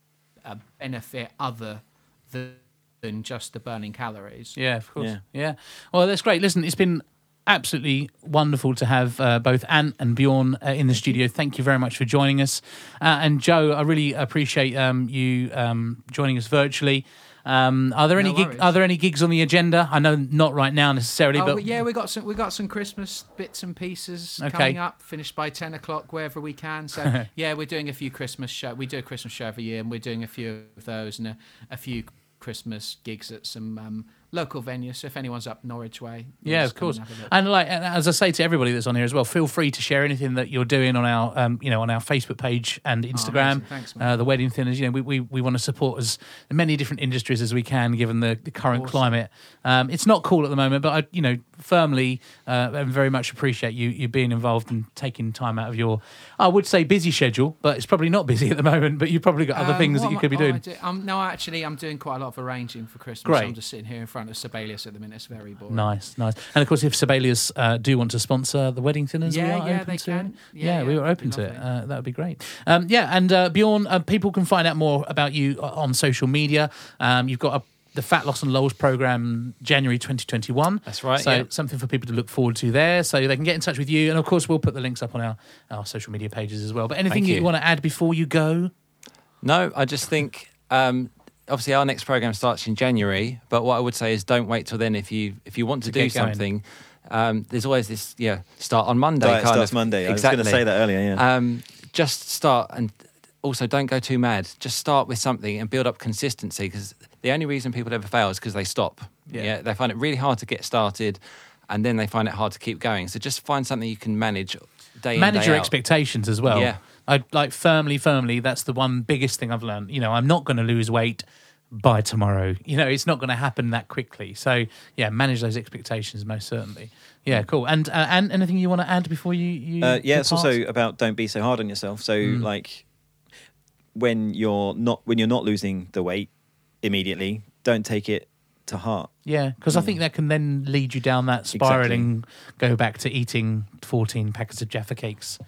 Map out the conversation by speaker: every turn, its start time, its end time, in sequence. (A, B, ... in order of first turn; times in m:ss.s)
0:00.4-0:04.6 A
0:04.5-0:21.6 B
0:10.9-0:11.2 A
0:18.1-0:18.7 A
0:21.3-0:37.3 A
0:24.4-0:24.8 B
0:36.4-1:00.6 B
0:43.1-0:44.1 A
0:48.7-0:49.1 A
0:59.5-1:05.9 A
1:03.2-1:03.6 B
1:05.7-1:28.7 B
1:09.2-1:11.6 A
1:20.8-1:21.5 C
1:27.1-1:27.5 C
1:29.4-1:55.9 C
1:35.8-1:36.4 B
1:39.2-1:41.2 D
1:55.2-2:10.5 B
1:56.4-1:56.8 C
2:09.8-2:12.9 D
2:12.2-2:12.5 B
2:13.9-2:19.9 D
2:19.2-2:25.4 B
2:21.5-2:22.1 D